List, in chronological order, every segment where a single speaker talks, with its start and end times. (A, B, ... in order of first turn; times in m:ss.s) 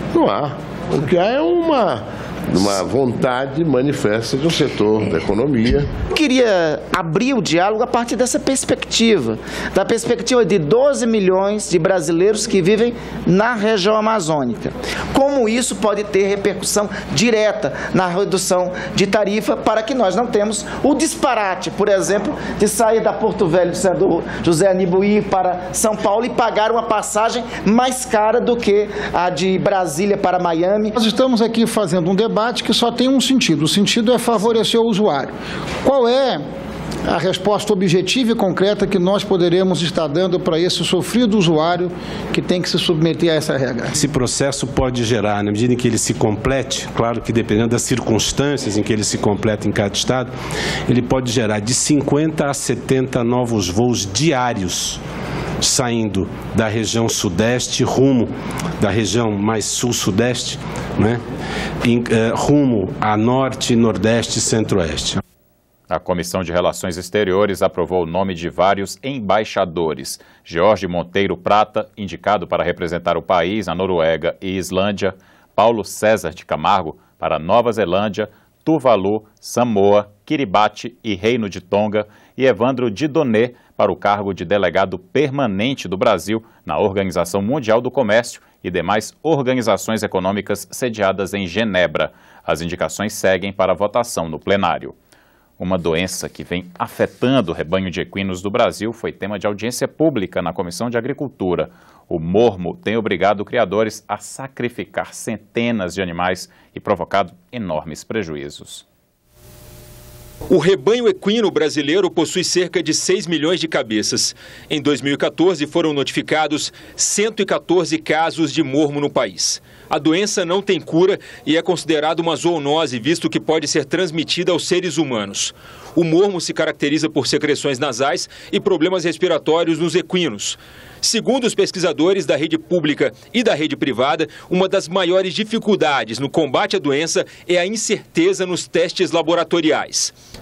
0:00.1-0:05.9 A
0:06.1-0:31.0 B
0:31.0-0:35.3 C
0:35.8-0:36.4 C
0:37.1-0:43.9 C
0:43.9-0:50.3 D
0:50.9-0:55.0 D
0:55.6-1:01.2 D
1:01.8-1:05.2 D
1:05.9-1:35.0 E
1:35.6-1:48.8 E
1:50.5-2:20.1 F